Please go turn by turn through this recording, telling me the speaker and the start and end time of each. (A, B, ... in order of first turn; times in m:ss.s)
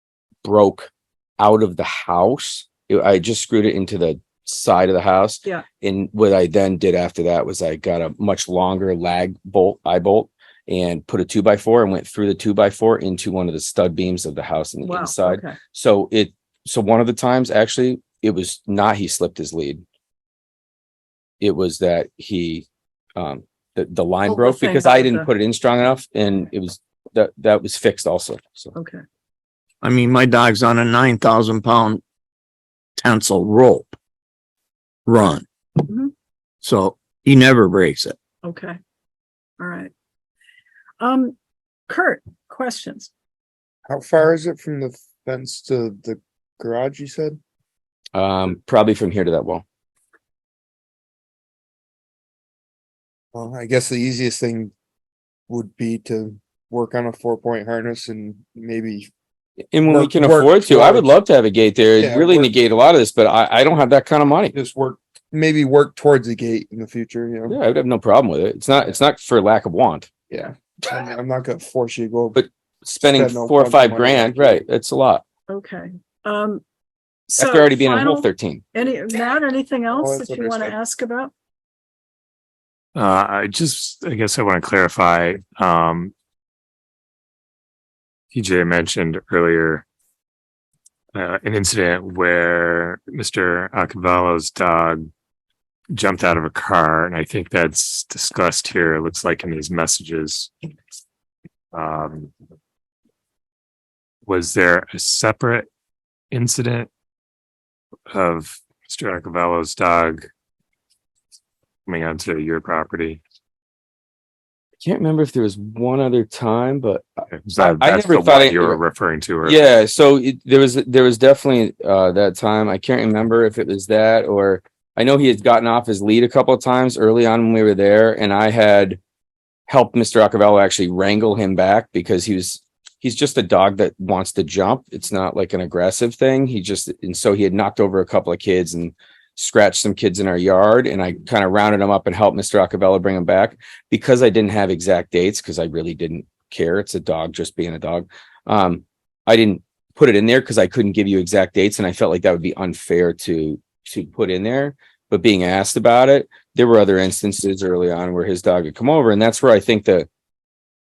0:00.4-0:19.8 A
0:14.8-0:15.6 B
0:21.4-0:28.7 A
0:24.2-0:25.3 B
0:28.8-0:29.0 B
0:29.8-0:32.0 C
0:33.0-0:34.0 C
0:35.1-0:35.5 C
0:35.9-0:36.1 B
0:36.6-0:38.2 C
0:38.4-0:38.8 B
0:39.6-0:39.9 B
0:41.0-0:41.4 B
0:41.9-0:43.1 B
0:43.9-0:47.4 D
0:48.1-0:49.6 A
0:53.3-0:54.7 D
0:55.5-0:59.1 D
0:59.7-1:04.6 A
0:59.9-1:01.1 D
1:02.0-1:02.5 D
1:04.5-1:07.6 D
1:07.5-1:10.1 A
1:10.3-1:12.4 D
1:12.4-1:15.2 A
1:13.1-1:14.6 D
1:15.5-1:16.6 B
1:17.3-1:21.3 B
1:17.4-1:18.6 A
1:19.9-1:20.8 D
1:23.0-1:26.1 E
1:28.3-1:29.8 E
1:31.1-1:35.1 E
1:35.9-1:40.5 E
1:41.7-1:42.3 E
1:44.3-1:45.7 E
1:46.3-1:46.9 E
1:48.1-1:50.3 E
1:51.9-1:53.2 E
1:54.8-1:58.8 A
1:57.3-1:59.7 E
1:59.4-2:09.0 A
2:09.7-2:40.1 A